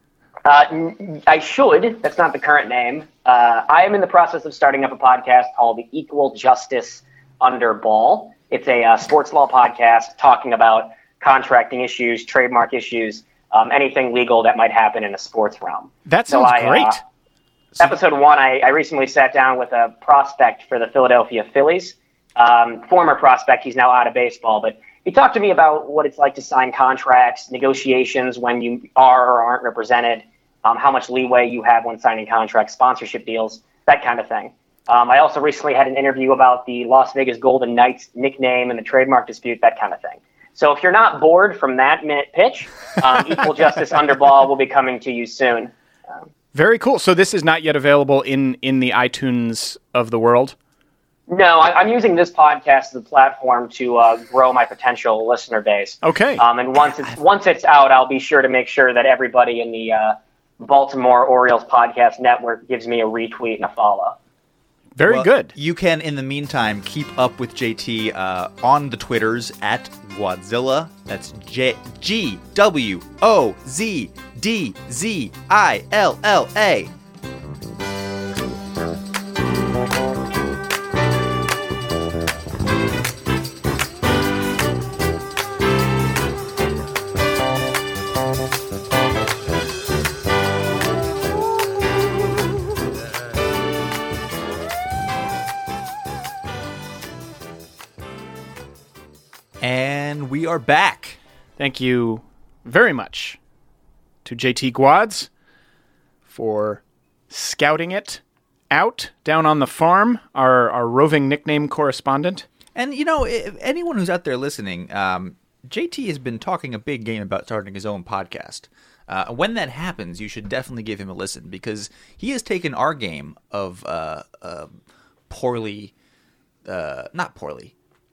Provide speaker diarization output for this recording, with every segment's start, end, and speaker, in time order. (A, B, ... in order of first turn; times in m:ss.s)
0:00.4-0:17.0 A
0:16.0-0:17.0 B
0:17.8-0:45.7 A
0:46.5-0:50.5 B
0:51.3-1:04.2 A
0:56.0-0:56.4 B
1:05.0-1:05.5 B
1:05.0-1:16.9 C
1:39.6-1:41.2 C
1:41.6-1:43.4 B
1:44.2-1:45.3 B
1:46.3-1:52.4 B
1:52.7-2:04.7 C
2:05.3-2:05.9 C
2:06.6-2:07.7 C